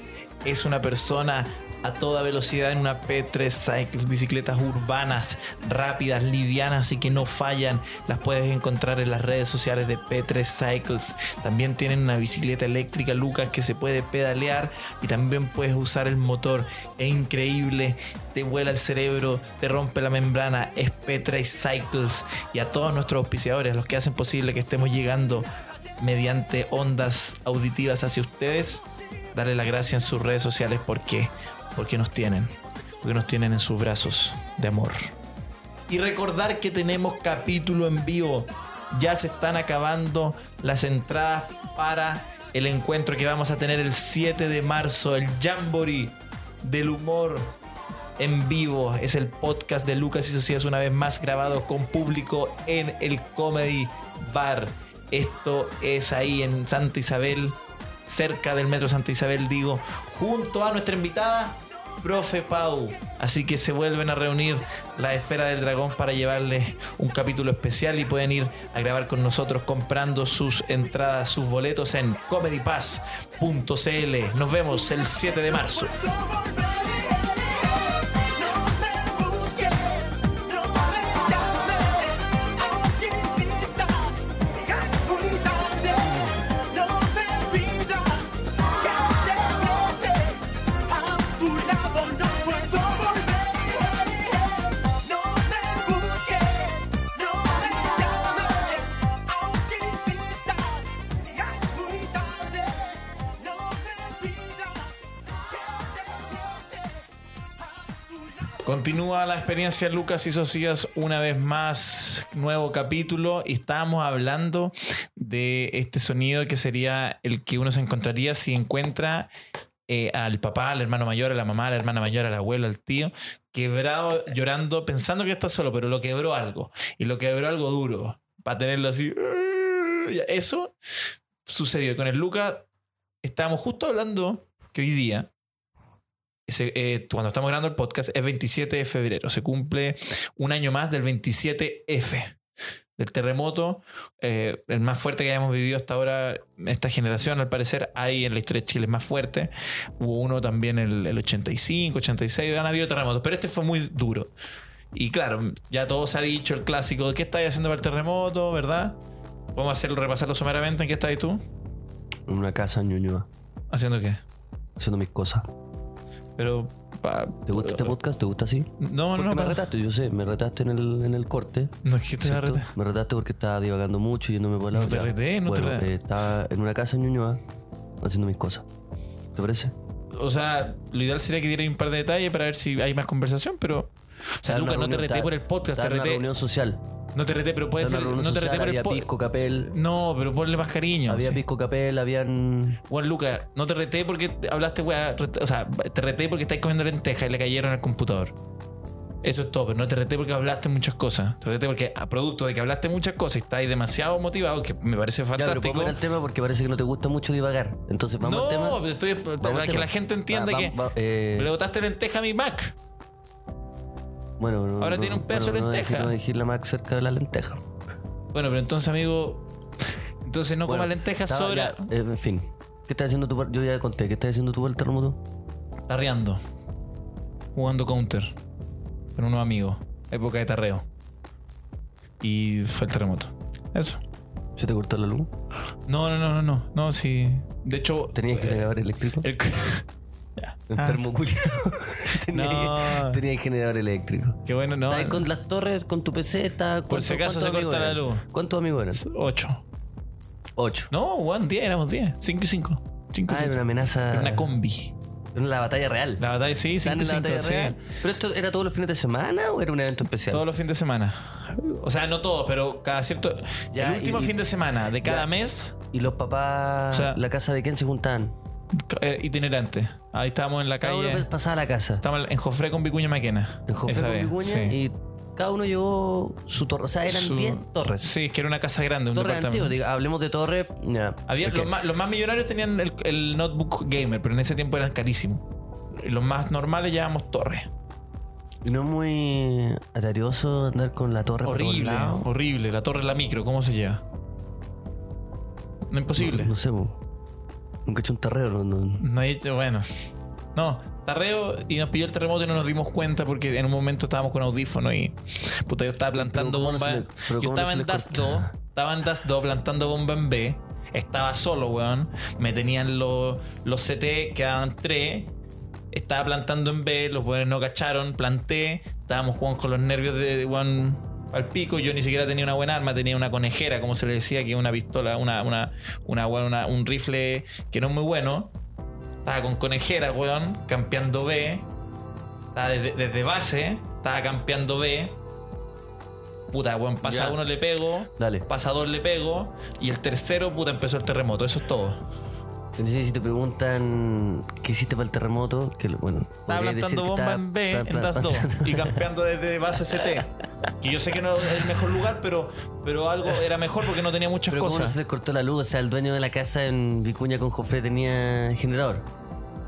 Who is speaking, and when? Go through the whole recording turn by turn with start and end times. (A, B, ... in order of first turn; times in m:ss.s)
0:00.4-0:35.1 A
0:35.9-0:47.6 A
0:48.2-1:15.9 A
1:15.6-1:48.6 B
1:48.6-1:59.3 A
1:59.9-2:10.7 A
2:11.4-2:12.6 A
2:13.2-2:15.3 A
2:16.5-2:22.4 A
2:23.0-2:34.3 A
2:34.9-2:39.0 A
2:39.5-2:41.4 A
2:42.3-2:43.3 C
2:43.7-2:44.2 A
2:44.8-2:45.5 C
2:46.4-2:48.0 A
2:47.5-2:57.4 C
2:48.8-2:49.6 A
2:51.8-2:52.7 A
2:54.7-2:55.9 A
2:58.0-2:58.6 C
2:59.3-2:59.7 C
3:00.1-3:06.3 A
3:04.5-3:06.8 C
3:07.1-3:09.1 A
3:07.8-3:09.7 C
3:09.7-3:11.4 A
3:11.1-3:12.8 C
3:12.9-3:18.3 A
3:19.2-3:26.0 A
3:25.4-3:28.8 C
3:28.2-3:30.8 A
3:29.4-3:31.5 C
3:31.3-3:32.7 A
3:34.4-3:37.6 C
3:34.8-3:36.1 A
3:38.3-3:39.5 A
3:40.2-3:41.9 A
3:40.6-3:45.2 C
3:45.9-3:46.4 A
3:47.5-3:48.3 A
3:49.1-3:50.8 A
3:52.2-3:54.0 A
3:54.6-3:55.3 C
3:55.9-3:59.8 A
3:58.1-3:59.3 C
4:00.4-4:01.0 A
4:00.7-4:09.0 C
4:02.3-4:03.2 A
4:04.4-4:05.3 A
4:06.9-4:08.2 A
4:08.9-4:09.6 A
4:10.6-4:10.9 C
4:10.9-4:14.9 A
4:13.3-4:14.5 C
4:15.3-4:16.2 C
4:16.2-4:17.8 A
4:16.8-4:20.4 C
4:20.3-4:25.8 A
4:23.7-4:24.4 C
4:25.0-4:25.3 C
4:25.9-4:28.3 C
4:26.9-4:27.2 A
4:28.7-4:31.3 A
4:30.8-4:32.0 C
4:32.0-4:34.8 A
4:33.7-4:38.1 C
4:37.1-4:39.7 A
4:39.1-4:41.7 C
4:41.3-4:47.7 A
4:48.6-4:52.3 C
4:51.4-4:54.0 A
4:55.9-4:56.5 A
4:56.2-4:57.0 C
4:57.8-4:59.0 C
4:59.0-4:59.9 A
5:00.5-5:15.3 A
5:06.1-5:08.5 C
5:15.9-5:28.5 A
5:29.2-5:31.7 A
5:32.5-5:35.2 A
5:36.5-5:42.0 A
5:37.0-5:37.4 C
5:38.2-5:38.5 C
5:42.8-5:49.0 C
5:46.5-5:50.3 A
5:50.8-5:55.0 A
5:54.5-5:59.0 C